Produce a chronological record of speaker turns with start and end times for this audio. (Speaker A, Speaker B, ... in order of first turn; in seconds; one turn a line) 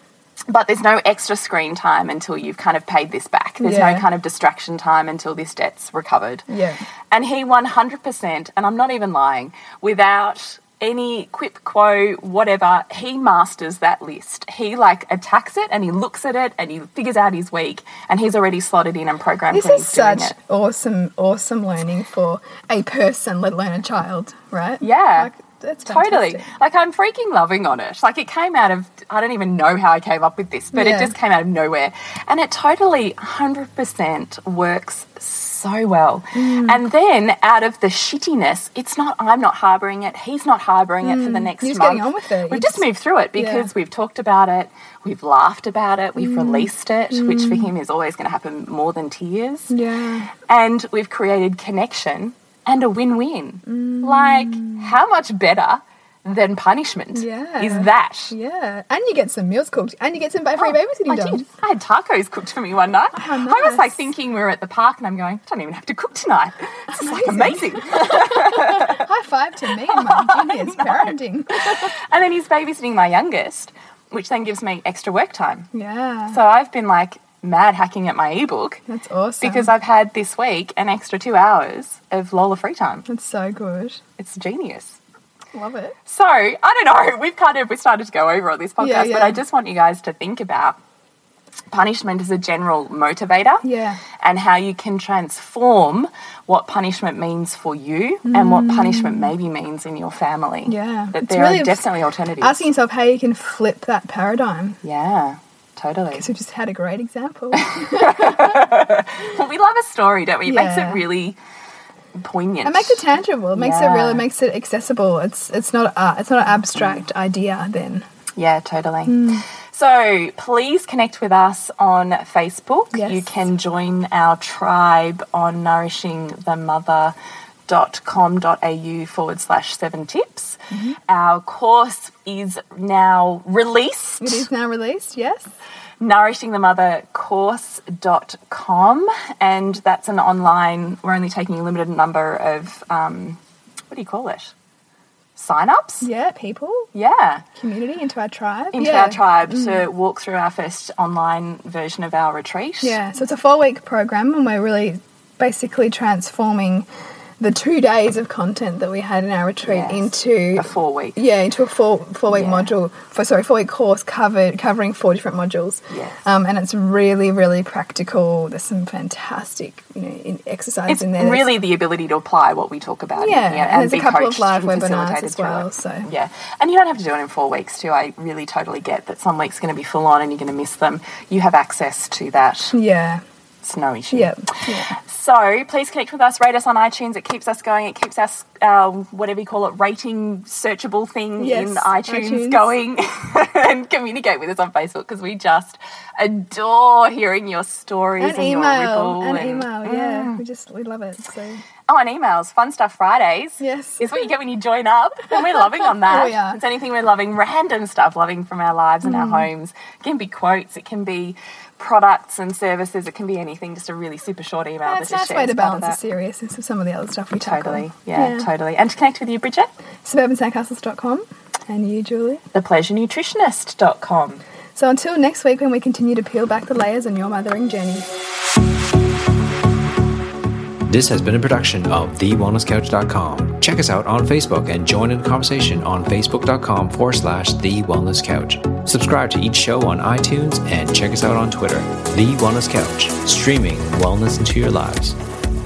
Speaker A: 0.5-6.5
Speaker B: 3.6-4.0
Speaker B: 6.5-6.8
Speaker A: 7.1-20.4
Speaker B: 19.5-26.4
Speaker A: 24.8-25.3
Speaker A: 25.8-49.7
Speaker B: 30.7-31.1
Speaker B: 36.3-36.8
Speaker B: 41.0-42.8
Speaker B: 43.3-43.7
Speaker B: 46.2-47.7
Speaker B: 49.7-50.3
Speaker A: 50.5-58.3
Speaker B: 53.7-54.9
Speaker B: 57.1-61.5
Speaker A: 60.6-69.0
Speaker B: 63.1-64.1
Speaker B: 66.9-71.9
Speaker A: 69.9-75.7
Speaker B: 75.7-76.4
Speaker A: 76.3-78.8
Speaker B: 78.9-79.7
Speaker A: 79.4-83.0
Speaker B: 83.1-84.0
Speaker A: 84.2-85.0
Speaker B: 85.5-86.0
Speaker A: 86.0-90.8
Speaker B: 88.8-89.4
Speaker A: 91.7-93.7
Speaker B: 93.6-94.0
Speaker A: 94.2-102.7
Speaker B: 98.3-99.3
Speaker B: 100.7-101.9
Speaker B: 102.4-104.8
Speaker A: 104.8-106.2
Speaker B: 106.1-108.6
Speaker A: 107.5-111.4
Speaker B: 110.4-111.0
Speaker A: 112.2-114.2
Speaker B: 112.6-118.0
Speaker A: 116.8-117.0
Speaker A: 118.4-127.1
Speaker B: 119.0-119.4
Speaker B: 122.9-123.2
Speaker A: 127.7-134.4
Speaker B: 130.7-131.0
Speaker B: 134.2-135.5
Speaker A: 136.0-143.4
Speaker A: 143.9-144.5
Speaker A: 145.3-146.1
Speaker B: 146.0-146.9
Speaker A: 146.9-147.4
Speaker B: 147.6-149.8
Speaker A: 148.7-153.0
Speaker B: 152.8-156.9
Speaker B: 157.4-171.5
Speaker A: 159.7-161.2
Speaker A: 162.3-162.7
Speaker A: 165.9-166.2
Speaker A: 170.9-182.8
Speaker B: 173.2-176.1
Speaker B: 182.7-183.2
Speaker A: 183.6-200.4
Speaker B: 184.1-184.9
Speaker B: 191.4-192.7
Speaker B: 198.2-201.6
Speaker A: 201.9-216.0
Speaker B: 203.6-204.1
Speaker B: 205.8-206.6
Speaker B: 209.0-209.5
Speaker B: 214.8-218.5
Speaker A: 217.4-219.7
Speaker B: 220.0-222.4
Speaker A: 222.5-224.4
Speaker B: 224.8-228.1
Speaker C: 230.9-245.2